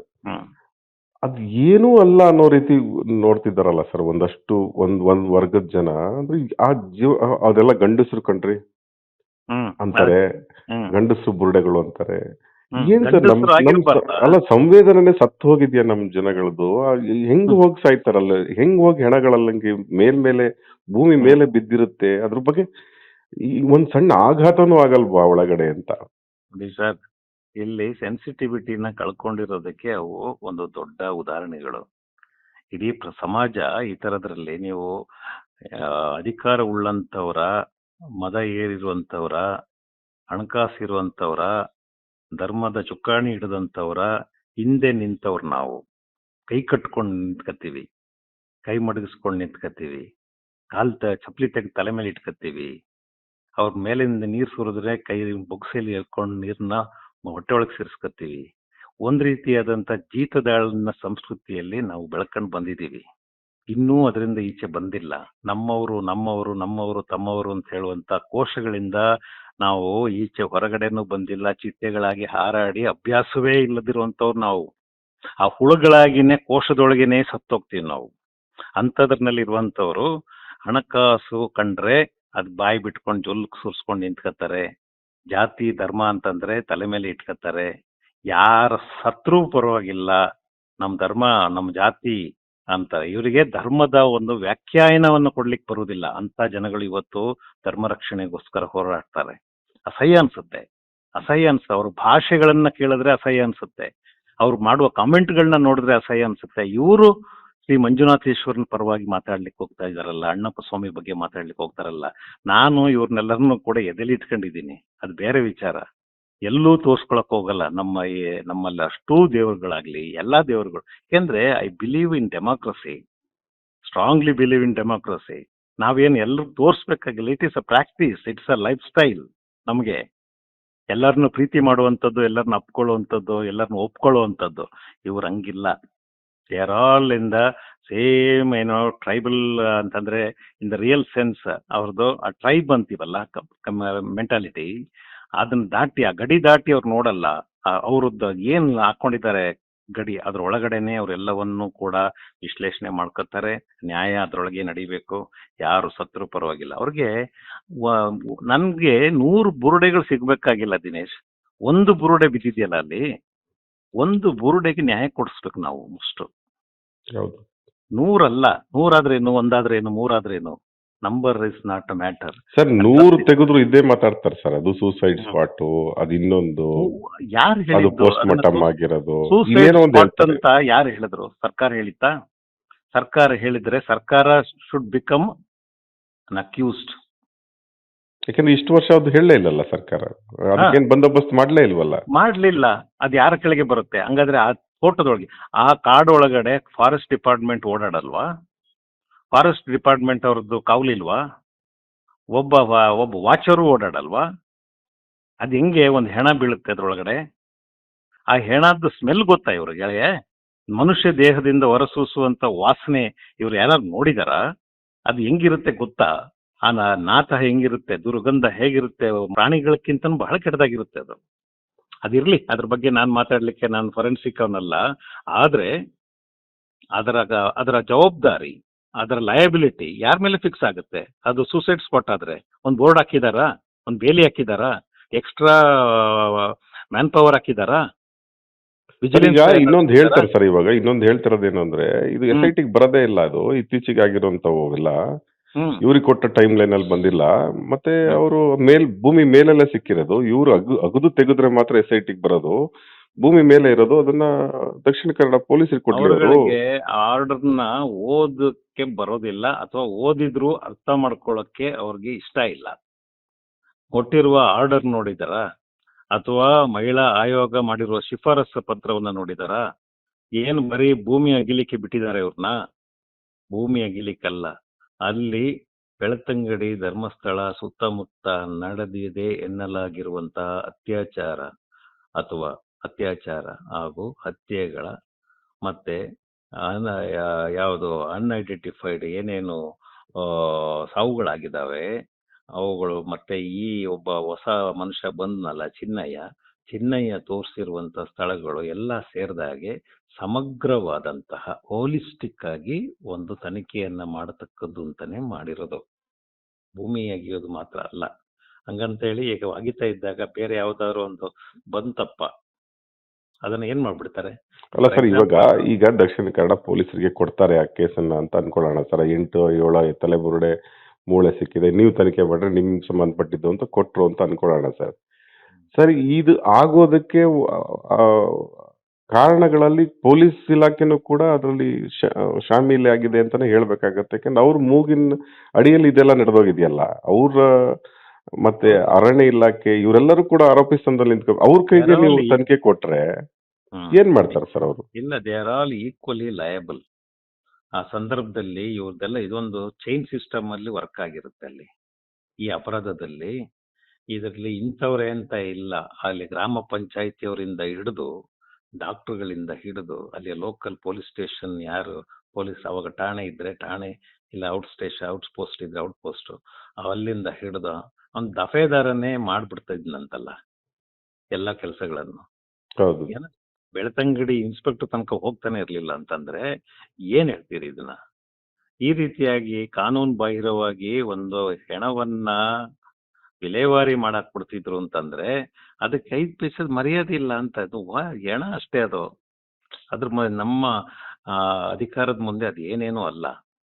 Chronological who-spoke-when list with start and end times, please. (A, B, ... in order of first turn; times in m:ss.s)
0:01.3-0:08.6 A
0:09.5-0:10.1 B
0:09.8-0:10.2 A
0:10.9-0:12.2 A
0:12.8-0:14.3 B
0:12.8-0:16.7 A
0:17.3-0:22.6 A
0:23.7-0:25.9 A
0:26.6-0:27.0 B
0:27.6-0:31.8 B
0:32.7-0:34.9 B
0:35.8-0:37.5 B
0:38.2-0:39.4 B
0:40.3-0:41.5 B
0:42.4-0:44.1 B
0:44.6-0:45.8 B
0:46.5-0:47.8 B
0:48.6-0:50.0 B
0:50.7-0:52.7 B
0:53.6-0:58.4 B
0:59.0-1:03.0 B
1:03.7-1:09.0 B
1:09.6-1:14.6 B
1:15.4-1:18.1 B
1:18.8-1:20.1 B
1:20.6-1:24.6 B
1:25.3-1:27.7 B
1:28.3-1:30.2 B
1:30.8-1:32.2 B
1:32.7-1:39.4 B
1:39.9-1:40.6 B
1:41.2-1:43.9 B
1:44.4-1:47.1 B
1:47.7-1:55.8 B
1:56.5-2:03.0 B
2:03.9-2:10.0 B
2:10.9-2:15.7 B
2:16.5-2:24.7 B
2:25.4-2:29.4 B
2:30.0-2:37.1 B
2:37.9-2:41.1 B
2:41.7-2:43.0 B
2:44.0-2:46.3 B
2:48.0-2:53.3 B
2:52.5-2:56.8 A
2:56.8-2:58.6 B
2:57.7-3:00.4 A
2:59.3-3:02.1 B
3:02.9-3:05.3 B
3:06.3-3:06.9 B
3:08.3-3:12.0 A
3:12.1-3:18.2 B
3:19.3-3:21.2 B
3:22.4-3:24.2 B
3:25.4-3:27.2 B
3:28.3-3:30.0 B
3:30.8-3:34.4 B
3:35.1-3:36.1 B
3:36.7-3:41.2 B
3:42.1-3:44.8 B
3:45.3-3:45.7 B
3:47.0-3:57.8 B
3:59.0-4:00.2 B
3:59.1-4:04.9 A
4:05.8-4:12.5 A
4:13.2-4:14.3 A
4:14.8-4:16.5 A
4:15.9-4:22.7 B
4:24.0-4:25.4 B
4:26.2-4:29.6 B
4:30.4-4:32.5 B
4:33.5-4:34.5 B
4:35.0-4:35.4 B
4:36.0-4:41.5 B
4:42.2-4:44.9 B
4:45.6-4:46.0 B
4:46.6-4:49.6 B
4:50.2-4:51.8 B
4:52.6-5:05.8 B
5:06.8-5:08.1 B
5:08.7-5:12.3 B
5:13.4-5:14.3 B
5:14.8-5:20.5 A
5:14.8-5:15.6 B
5:21.1-5:24.9 A
5:25.8-5:27.3 A
5:27.9-5:28.4 A
5:29.2-5:35.1 A
5:35.6-5:37.4 A
5:38.4-5:43.0 A
5:41.8-5:42.3 B
5:43.8-5:44.4 B
5:43.9-5:44.8 A
5:45.0-5:46.8 B
5:47.8-5:51.7 B
5:52.5-5:53.3 B
5:54.1-5:58.1 B
5:58.8-6:10.3 B
6:11.4-6:12.2 B
6:12.8-6:13.1 A
6:13.1-6:16.4 B
6:17.1-6:18.0 B
6:18.9-6:22.4 B
6:23.4-6:25.3 B
6:25.8-6:29.0 B
6:29.9-6:30.7 B
6:31.3-6:33.3 B